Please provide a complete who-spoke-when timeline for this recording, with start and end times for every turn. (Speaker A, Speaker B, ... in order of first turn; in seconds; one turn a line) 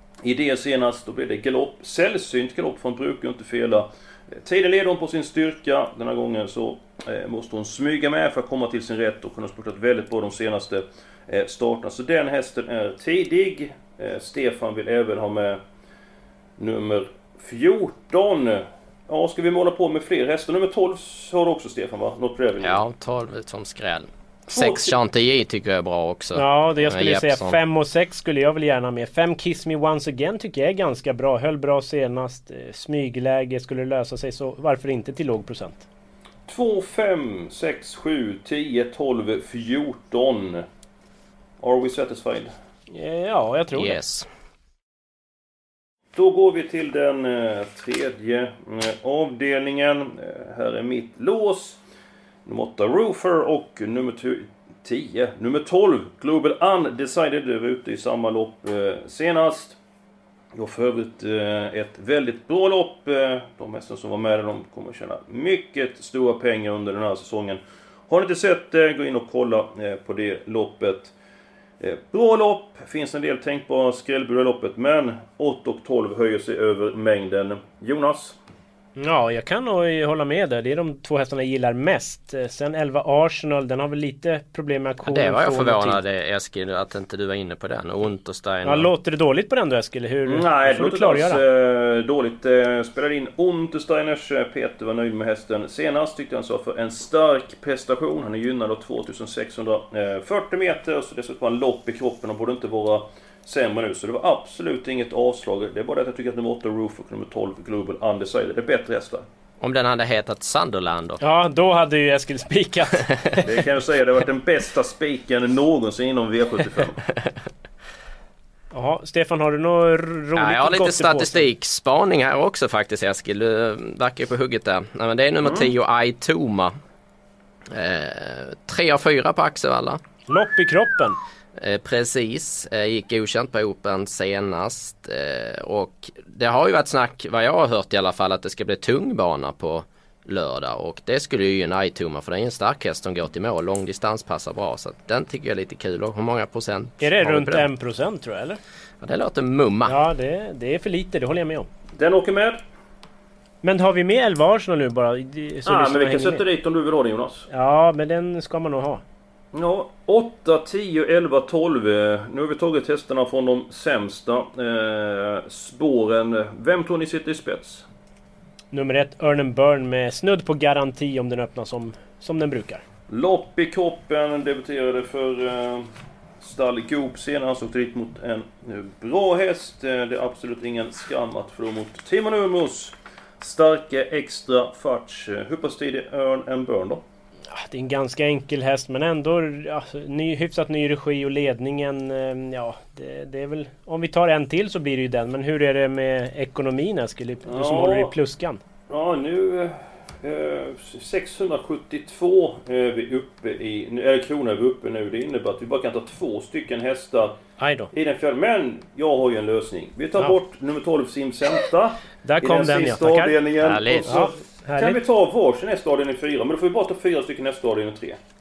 Speaker A: 0.2-15.6
Speaker A: 16.6-22.8
Speaker B: 22.6-27.6
Speaker A: 24.5-24.9
Speaker C: 26.4-35.9
Speaker A: 36.5-40.6
Speaker A: 41.6-42.5
Speaker C: 42.9-44.0
Speaker B: 43.8-44.3
Speaker A: 46.1-51.8
Speaker A: 52.5-59.8
Speaker A: 60.5-71.1
Speaker A: 71.8-78.4
Speaker C: 79.0-86.0
Speaker B: 85.1-88.9
Speaker C: 88.7-91.4
Speaker A: 90.2-109.2
Speaker B: 109.6-111.2
Speaker C: 111.2-113.4
Speaker A: 113.4-117.0
Speaker C: 118.7-121.4
Speaker B: 120.4-126.7
Speaker A: 125.4-125.7
Speaker B: 127.7-130.0
Speaker C: 130.3-131.2
Speaker B: 131.6-147.7
Speaker C: 147.0-148.6
Speaker B: 149.0-150.0
Speaker C: 149.9-151.7
Speaker A: 152.0-152.6
Speaker C: 153.6-156.4
Speaker A: 155.7-157.5
Speaker C: 157.5-159.0
Speaker A: 159.5-167.9
Speaker C: 168.7-172.8
Speaker A: 173.1-175.9
Speaker A: 176.4-187.0
Speaker C: 187.5-198.6
Speaker A: 197.5-198.1
Speaker A: 198.9-207.4
Speaker C: 207.6-207.9
Speaker A: 207.9-218.2
Speaker C: 212.2-213.3
Speaker B: 213.6-214.2
Speaker C: 214.1-215.0